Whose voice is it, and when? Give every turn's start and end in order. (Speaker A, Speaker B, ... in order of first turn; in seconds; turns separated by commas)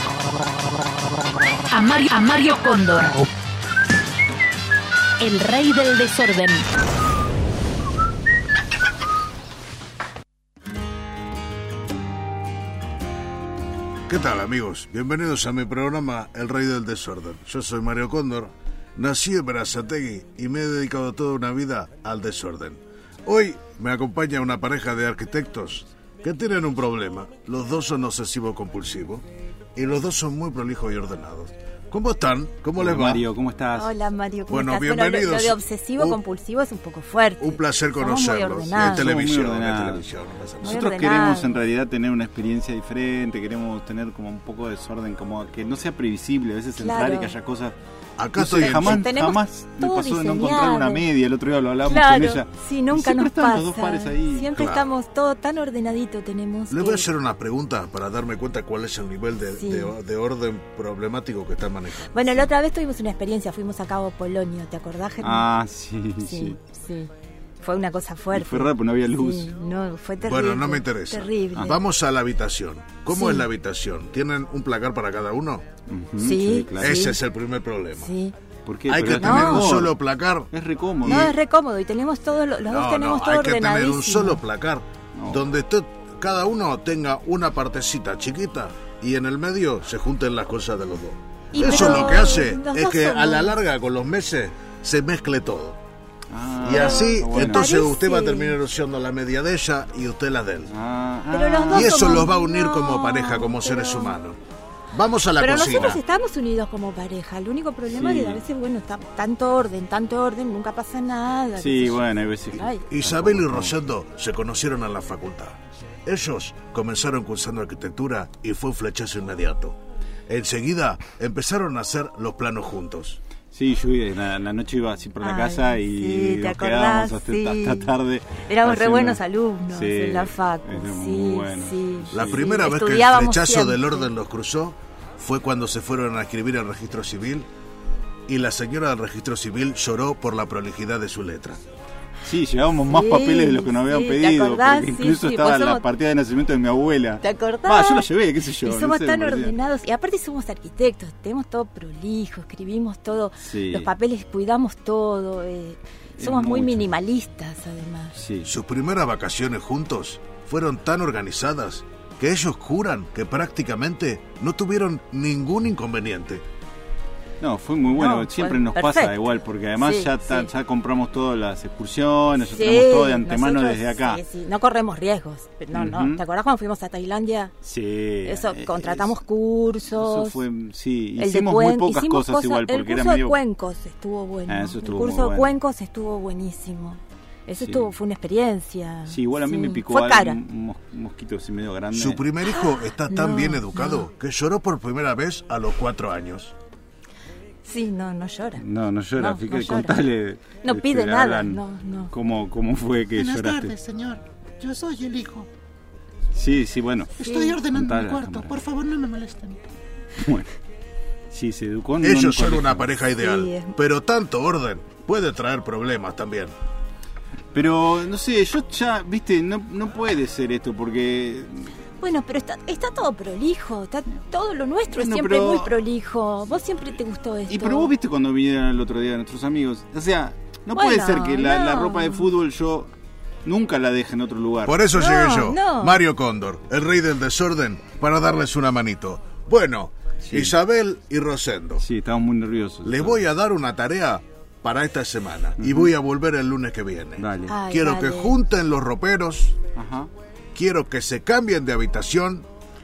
Speaker A: 1.7-3.3, Speaker A: 5.2-6.7, Speaker B: 14.1-29.2, Speaker B: 29.8-33.3, Speaker C: 32.8-33.9, Speaker D: 33.7-39.1, Speaker B: 34.5-36.2, Speaker B: 37.4-40.8, Speaker C: 38.8-40.0, Speaker D: 40.6-41.6, Speaker C: 40.6-47.7, Speaker D: 46.8-47.3, Speaker B: 48.2-49.0, Speaker C: 48.4-54.5, Speaker D: 48.7-51.0, Speaker D: 51.8-57.1, Speaker B: 54.5-54.9, Speaker B: 56.7-62.5, Speaker D: 59.5-59.9, Speaker D: 62.1-65.5, Speaker C: 65.2-66.6, Speaker D: 66.2-67.1, Speaker D: 67.6-71.8, Speaker C: 68.3-69.5, Speaker B: 70.2-75.6, Speaker D: 73.1-73.5, Speaker C: 75.9-77.0, Speaker D: 76.2-77.2, Speaker B: 76.7-78.1, Speaker D: 77.9-78.3, Speaker C: 78.7-80.0, Speaker B: 78.9-80.5, Speaker D: 79.2-79.7, Speaker C: 80.5-81.3, Speaker B: 81.0-81.3, Speaker D: 81.0-84.4, Speaker B: 82.7-95.8, Speaker C: 85.2-85.5, Speaker D: 91.5-93.6, Speaker C: 91.6-92.1, Speaker C: 96.3-97.7, Speaker B: 96.6-100.7, Speaker D: 96.7-98.6, Speaker C: 100.7-102.3, Speaker D: 101.3-104.2, Speaker B: 101.7-104.4, Speaker B: 104.9-106.0, Speaker D: 105.4-112.8, Speaker C: 107.9-108.4, Speaker C: 111.6-113.8, Speaker B: 112.8-123.2, Speaker C: 123.5-132.6, Speaker D: 125.2-134.1, Speaker B: 132.1-137.5, Speaker B: 138.3-141.6, Speaker C: 142.2-149.5, Speaker D: 142.9-145.8, Speaker D: 147.2-148.1, Speaker D: 148.6-158.1, Speaker C: 153.4-153.9, Speaker C: 156.2-156.9, Speaker C: 158.1-158.5, Speaker B: 158.4-166.4, Speaker C: 167.4-174.2, Speaker D: 167.9-170.5, Speaker D: 172.4-177.5, Speaker C: 175.7-176.2, Speaker C: 177.6-179.1, Speaker D: 178.2-180.4, Speaker C: 179.9-183.4, Speaker D: 181.2-190.4, Speaker C: 184.5-185.5, Speaker C: 187.6-187.9, Speaker C: 189.1-192.3, Speaker B: 191.9-196.5, Speaker D: 192.4-194.1, Speaker D: 197.6-200.0, Speaker C: 198.6-203.8, Speaker D: 200.6-202.1, Speaker E: 203.2-205.5, Speaker C: 206.3-208.7, Speaker E: 207.2-209.6, Speaker D: 207.2-207.6, Speaker C: 210.2-210.5, Speaker C: 211.3-212.9, Speaker B: 212.0-216.5, Speaker D: 213.2-213.8, Speaker C: 217.5-221.7, Speaker D: 222.0-227.9, Speaker C: 224.9-225.8, Speaker C: 227.5-232.9, Speaker D: 230.7-232.3, Speaker C: 233.4-234.8, Speaker B: 234.6-241.8, Speaker D: 234.9-236.0, Speaker C: 240.2-240.6, Speaker C: 241.8-243.2, Speaker B: 242.8-249.6, Speaker C: 245.6-245.9, Speaker C: 247.2-247.6, Speaker D: 247.4-248.4, Speaker C: 249.7-250.1, Speaker B: 250.5-252.4